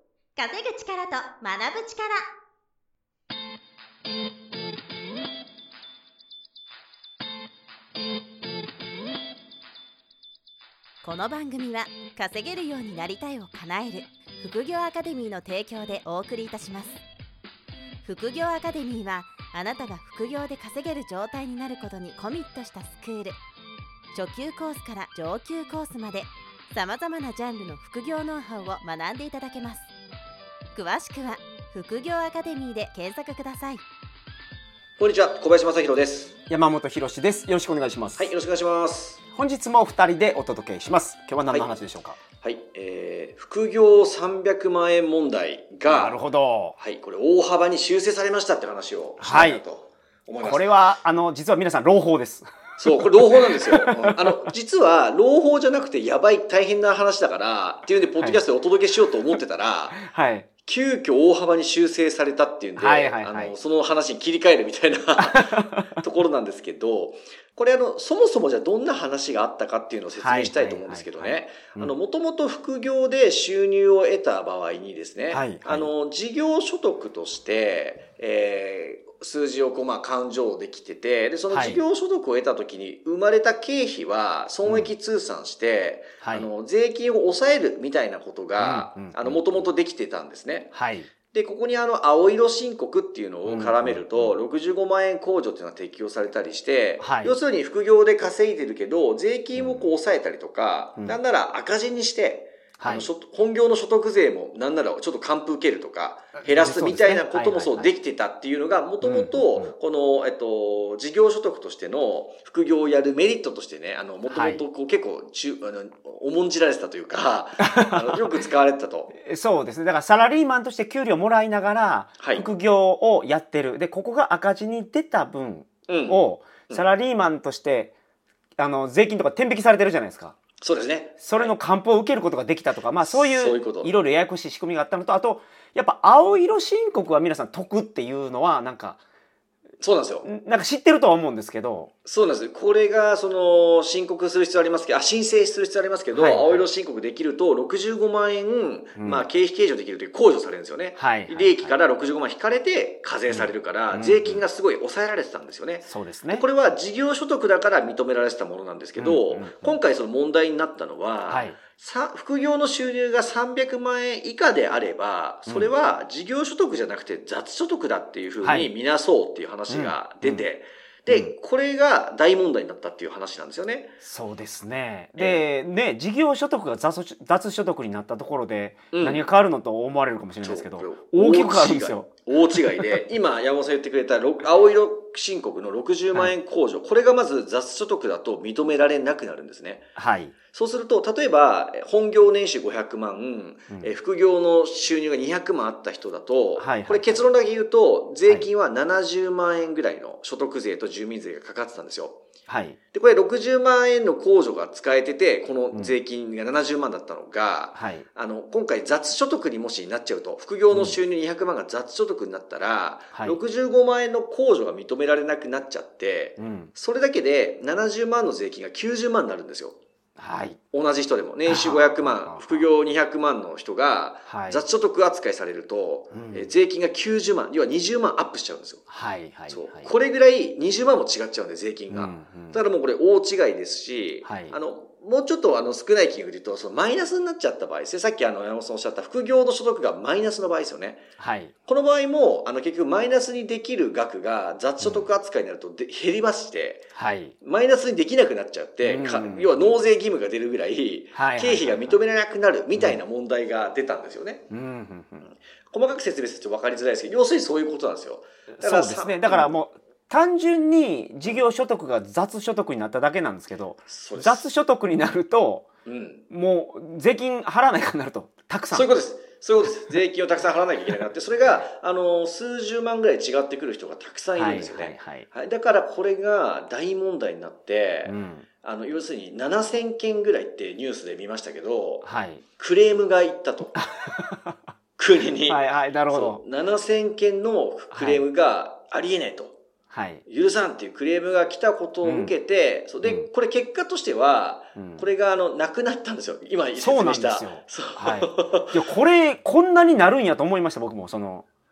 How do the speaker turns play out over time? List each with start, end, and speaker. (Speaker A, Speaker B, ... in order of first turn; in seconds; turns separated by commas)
Speaker A: 0.3-2.2, Speaker A: 11.0-17.0, Speaker A: 18.0-23.4, Speaker A: 24.1-29.9, Speaker A: 30.7-33.8, Speaker B: 35.0-36.4, Speaker C: 36.5-38.3, Speaker B: 38.1-39.2, Speaker C: 39.4-42.2, Speaker B: 42.4-46.2, Speaker C: 45.9-46.8, Speaker B: 46.7-50.7, Speaker C: 49.2-49.6, Speaker C: 50.4-54.3, Speaker B: 52.8-60.0, Speaker C: 59.9-60.5, Speaker B: 60.6-90.7, Speaker C: 62.8-63.5, Speaker C: 65.2-66.0, Speaker C: 70.2-71.9, Speaker C: 75.3-75.9, Speaker C: 81.5-81.8, Speaker C: 84.7-84.9, Speaker C: 86.2-86.5, Speaker C: 88.6-89.7, Speaker C: 90.7-91.1, Speaker B: 91.3-119.2, Speaker C: 93.4-94.3, Speaker C: 97.0-97.4, Speaker C: 99.5-99.9, Speaker C: 102.8-103.1, Speaker C: 106.4-107.9, Speaker C: 109.0-109.7, Speaker C: 114.3-114.6, Speaker C: 117.6-118.2, Speaker C: 119.2-127.9, Speaker B: 122.2-122.5, Speaker B: 125.9-126.9, Speaker C: 128.6-130.4, Speaker B: 130.6-131.6, Speaker C: 131.2-139.0, Speaker B: 133.0-133.9, Speaker B: 139.8-140.3, Speaker C: 140.2-141.9, Speaker B: 142.0-173.9, Speaker C: 146.1-146.7, Speaker C: 149.0-149.3, Speaker C: 151.0-151.8, Speaker C: 153.3-154.4, Speaker C: 155.8-156.4, Speaker C: 159.0-159.8, Speaker C: 161.3-161.6, Speaker C: 168.4-168.7, Speaker C: 169.7-170.5, Speaker C: 171.1-171.3, Speaker C: 174.0-183.0, Speaker B: 175.2-175.4, Speaker B: 178.9-179.2, Speaker B: 180.4-189.9, Speaker C: 189.9-190.3, Speaker B: 190.5-202.2, Speaker C: 196.6-197.2, Speaker C: 202.5-202.8, Speaker B: 202.9-219.8, Speaker C: 207.7-208.0, Speaker C: 210.7-211.0, Speaker C: 216.4-216.7, Speaker C: 220.2-220.6, Speaker B: 220.7-228.9, Speaker C: 221.4-222.7, Speaker C: 224.3-224.6, Speaker C: 226.1-226.5, Speaker C: 228.9-229.9, Speaker B: 229.5-241.0, Speaker C: 231.9-232.6, Speaker C: 234.2-234.6, Speaker C: 241.2-241.5, Speaker B: 241.7-246.8, Speaker C: 244.8-245.1, Speaker C: 246.9-247.3, Speaker B: 247.4-254.5, Speaker C: 248.8-249.7, Speaker C: 251.1-252.0, Speaker C: 252.8-253.0, Speaker C: 254.5-255.3, Speaker B: 255.3-259.5, Speaker C: 258.5-265.7, Speaker B: 263.9-264.5, Speaker B: 265.9-266.2, Speaker C: 266.3-268.9, Speaker B: 268.7-283.8, Speaker C: 274.3-275.3, Speaker C: 278.0-278.4, Speaker C: 282.0-282.4, Speaker C: 283.8-284.6, Speaker B: 285.0-289.6, Speaker C: 285.4-286.4, Speaker C: 287.9-288.2, Speaker C: 289.9-290.2, Speaker B: 290.2-298.8, Speaker C: 292.0-292.3, Speaker C: 294.8-295.1, Speaker C: 296.8-301.4